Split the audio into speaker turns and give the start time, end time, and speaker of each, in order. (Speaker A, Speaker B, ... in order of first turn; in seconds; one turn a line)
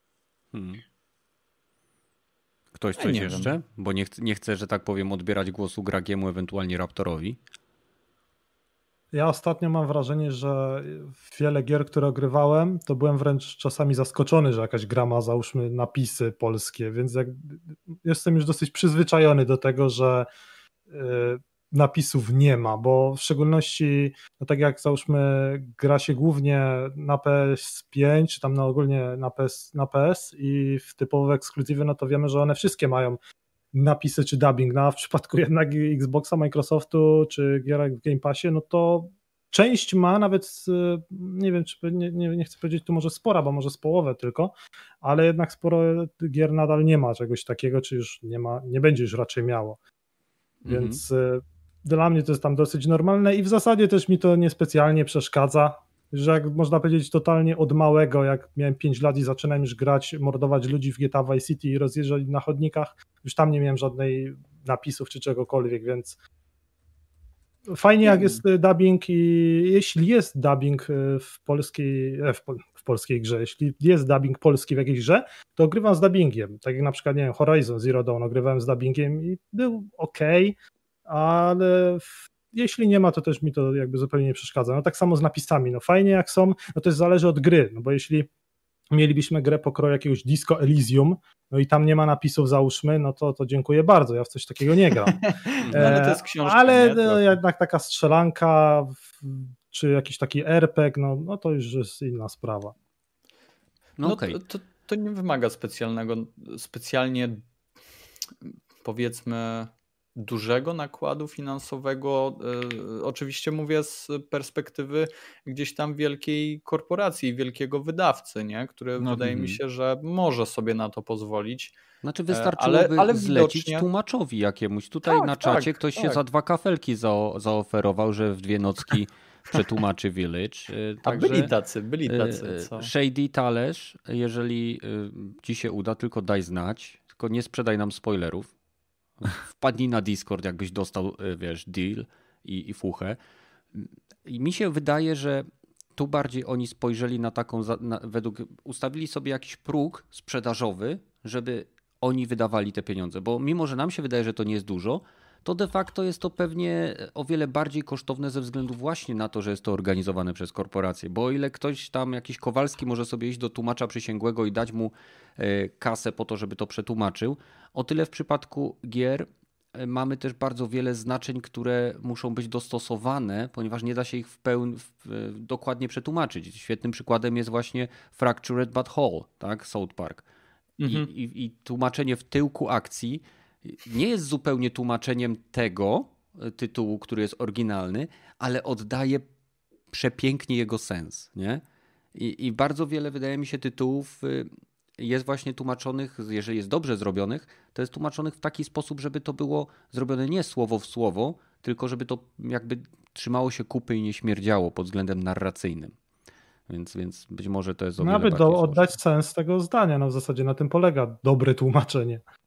Speaker A: 0.5-0.8
Speaker A: 2.7-7.4
Speaker B: 3.0-3.5
Speaker C: 9.1-20.3
Speaker C: 20.9-33.2
Speaker C: 33.7-49.8
Speaker A: 50.6-51.0
Speaker C: 50.6-66.2
Speaker C: 67.7-88.3
Speaker B: 68.0-68.4
Speaker C: 88.9-102.7
Speaker B: 95.1-97.4
Speaker A: 95.6-96.0
Speaker A: 104.0-104.4
Speaker B: 104.0-107.4
Speaker B: 108.5-121.8
Speaker A: 119.1-119.6
Speaker A: 122.0-131.5
Speaker B: 122.3-123.9
Speaker B: 125.0-126.2
Speaker B: 131.1-132.9
Speaker A: 132.1-138.5
Speaker A: 139.2-143.2
Speaker A: 143.7-180.2
Speaker B: 180.8-181.1
Speaker A: 180.9-189.3
Speaker A: 189.9-191.6
Speaker A: 192.1-205.9
Speaker A: 206.7-208.9
Speaker C: 208.0-212.2